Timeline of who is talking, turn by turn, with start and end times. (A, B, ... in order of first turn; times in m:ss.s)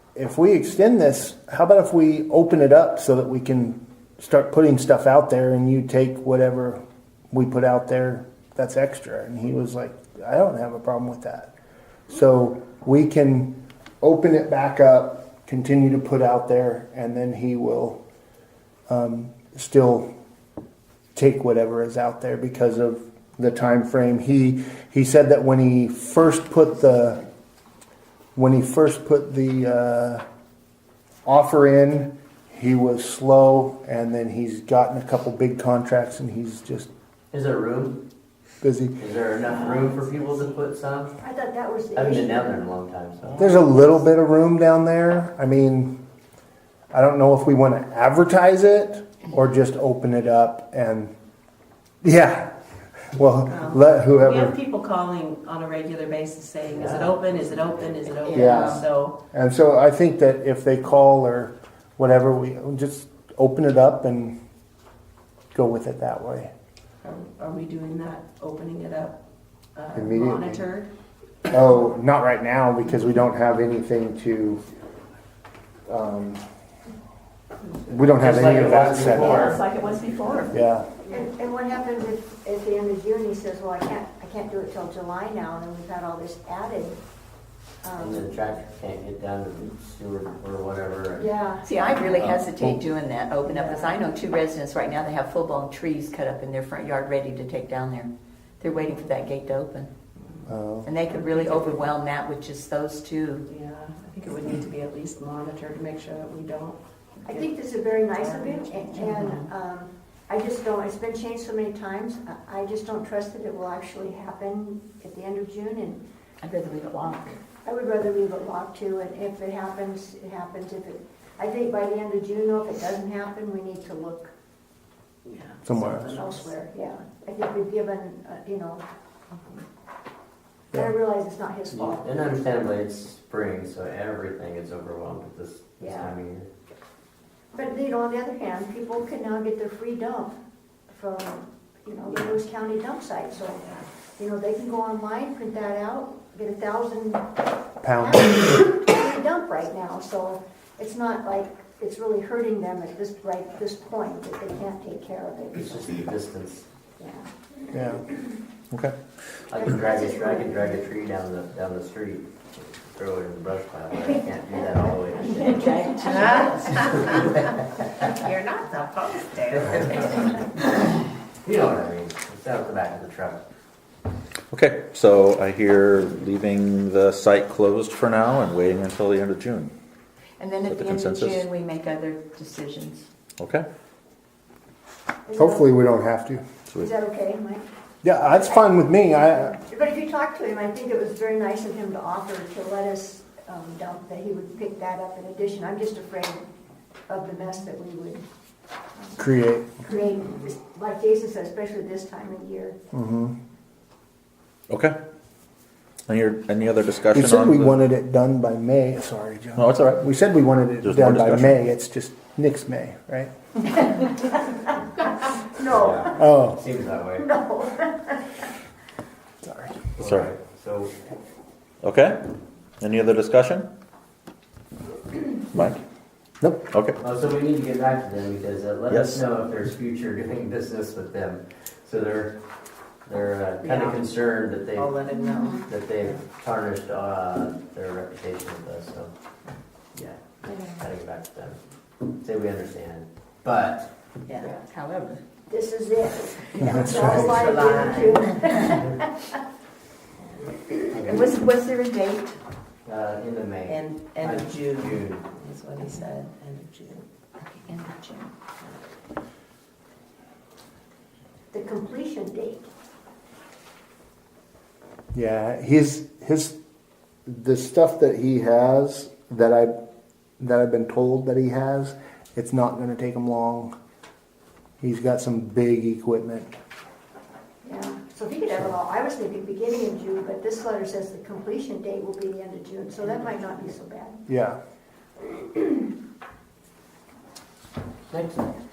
0:00.1-0:06.8 A
0:07.3-0:11.5 A
0:12.1-0:18.0 A
0:18.9-0:20.1 A
0:21.1-0:27.2 A
0:28.4-0:30.2 A
0:31.2-0:36.9 A
0:37.3-0:38.0 B
0:38.6-0:39.0 A
0:39.0-0:41.1 B
0:41.2-0:42.6 C
0:41.9-0:43.4 B
0:43.4-0:46.0 A
0:43.4-0:43.7 C
0:46.9-0:51.1 A
0:52.0-0:52.6 A
0:53.1-0:54.6 A
0:53.5-0:59.2 D
0:56.7-0:57.7 B
0:58.1-0:58.8 E
0:58.3-1:04.4 A
1:05.5-1:06.5 A
1:07.0-1:09.2 D
1:09.8-1:10.9 D
1:09.9-1:10.6 A
1:11.5-1:14.6 A
1:15.9-1:16.4 A
1:17.9-1:19.6 A
1:18.2-1:19.6 B
1:18.6-1:20.5 E
1:20.5-1:20.9 A
1:21.1-1:27.0 C
1:27.8-1:28.3 C
1:28.0-1:31.3 B
1:31.1-1:31.7 C
1:31.6-1:39.9 E
1:32.2-1:32.8 A
1:33.4-1:33.9 C
1:40.5-1:40.9 A
1:40.8-1:43.4 E
1:41.1-1:41.9 D
1:43.5-1:47.5 D
1:47.2-1:56.0 C
1:48.1-1:49.2 D
1:49.0-1:49.5 E
1:56.4-1:57.3 E
1:57.6-2:04.3 C
2:05.2-2:06.5 D
2:05.6-2:06.1 A
2:06.0-2:08.8 C
2:10.7-2:12.2 C
2:11.7-2:16.5 B
2:15.8-2:16.2 C
2:17.5-2:20.3 C
2:20.9-2:27.3 C
2:27.8-2:28.5 A
2:28.0-2:36.1 C
2:35.5-2:36.6 B
2:37.0-2:37.3 C
2:37.7-2:38.0 A
2:39.5-2:46.2 B
2:39.5-2:40.8 C
2:45.3-2:46.9 E
2:46.0-2:47.4 D
2:48.0-2:50.4 D
2:49.5-2:50.4 B
2:51.4-2:53.4 B
2:54.5-2:59.7 F
3:00.4-3:03.1 E
3:00.7-3:01.5 F
3:03.4-3:03.6 F
3:05.2-3:05.7 C
3:05.4-3:06.4 A
3:06.8-3:07.6 C
3:08.0-3:09.6 A
3:08.3-3:16.5 C
3:17.1-3:18.2 C
3:19.0-3:19.2 C
3:19.2-3:19.8 A
3:19.8-3:22.8 C
3:22.9-3:23.3 A
3:24.7-3:25.0 F
3:26.1-3:27.8 F
3:27.1-3:33.3 A
3:29.6-3:30.0 F
3:30.8-3:31.5 F
3:35.4-3:36.3 C
3:35.7-3:37.3 B
3:36.2-3:36.6 A
3:37.2-3:38.4 C
3:39.4-3:39.8 A
3:40.0-3:40.9 B
3:40.0-3:40.3 F
3:41.8-3:43.7 F
3:45.5-3:45.8 F
3:46.4-3:46.7 A
3:46.7-3:47.0 F
3:47.0-3:52.4 B
3:48.9-3:49.3 F
3:53.0-3:55.0 B
3:53.6-3:54.0 D
3:54.7-3:55.6 D
3:55.1-3:55.6 E
3:55.5-3:59.1 B
3:59.9-4:01.6 B
4:02.2-4:03.9 B
4:04.3-4:04.6 D
4:04.4-4:05.2 E
4:05.5-4:09.4 C
4:06.6-4:07.4 A
4:06.7-4:08.4 D
4:10.9-4:11.3 B
4:11.0-4:12.4 E
4:12.8-4:15.3 B
4:13.6-4:17.0 D
4:17.4-4:18.3 E
4:21.5-4:22.6 C
4:25.1-4:26.6 A
4:27.3-4:29.8 A
4:30.4-4:33.7 A
4:34.8-4:36.5 A
4:37.6-4:44.2 C
4:44.3-4:44.6 A
4:48.1-4:48.6 B